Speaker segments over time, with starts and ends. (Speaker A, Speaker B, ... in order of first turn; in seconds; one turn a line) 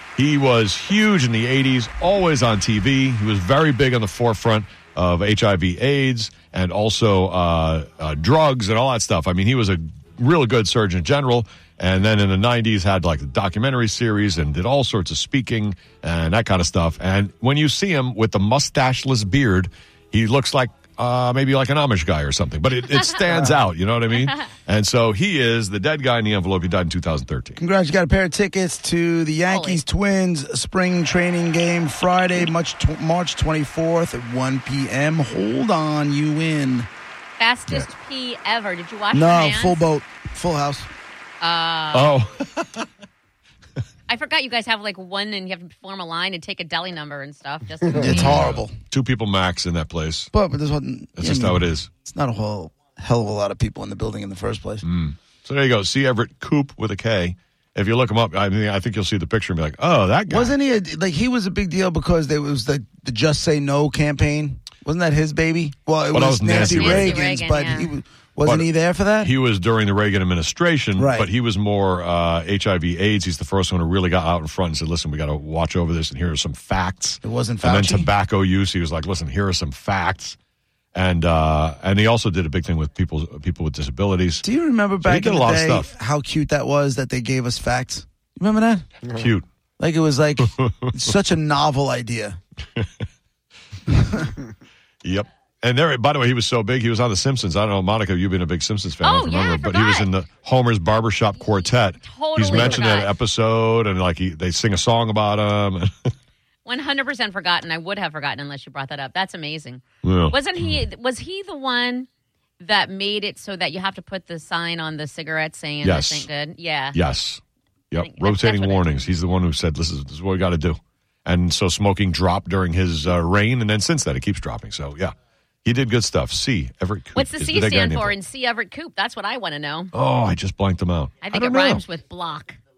Speaker A: 0.2-27.6
Speaker B: 23.3-23.6
Speaker B: 27.6-36.9
Speaker C: 29.5-29.8
Speaker C: 37.4-39.9
Speaker B: 39.1-40.9
Speaker C: 41.4-42.2
Speaker A: 41.9-42.9
Speaker C: 44.1-48.5
Speaker B: 48.0-48.7
Speaker A: 48.0-50.3
Speaker B: 50.3-54.9
Speaker A: 51.2-51.9
Speaker A: 54.8-60.5
Speaker B: 60.3-69.3
Speaker A: 66.1-67.2
Speaker C: 66.5-68.0
Speaker A: 69.2-80.4
Speaker B: 71.0-71.3
Speaker B: 77.2-78.1
Speaker A: 80.9-84.4
Speaker B: 84.4-89.0
Speaker A: 85.0-85.9
Speaker A: 89.1-89.5
Speaker B: 89.8-92.4
Speaker A: 90.4-90.7
Speaker B: 93.9-94.3
Speaker A: 95.0-105.9
Speaker C: 99.0-100.1
Speaker C: 101.7-103.2
Speaker C: 106.7-112.1
Speaker A: 110.0-110.8
Speaker C: 112.6-117.0
Speaker A: 115.8-116.3
Speaker A: 116.9-117.4
Speaker A: 117.9-125.1
Speaker C: 118.0-119.0
Speaker A: 125.7-128.2
Speaker C: 127.2-129.9
Speaker A: 129.9-131.8
Speaker C: 131.2-132.6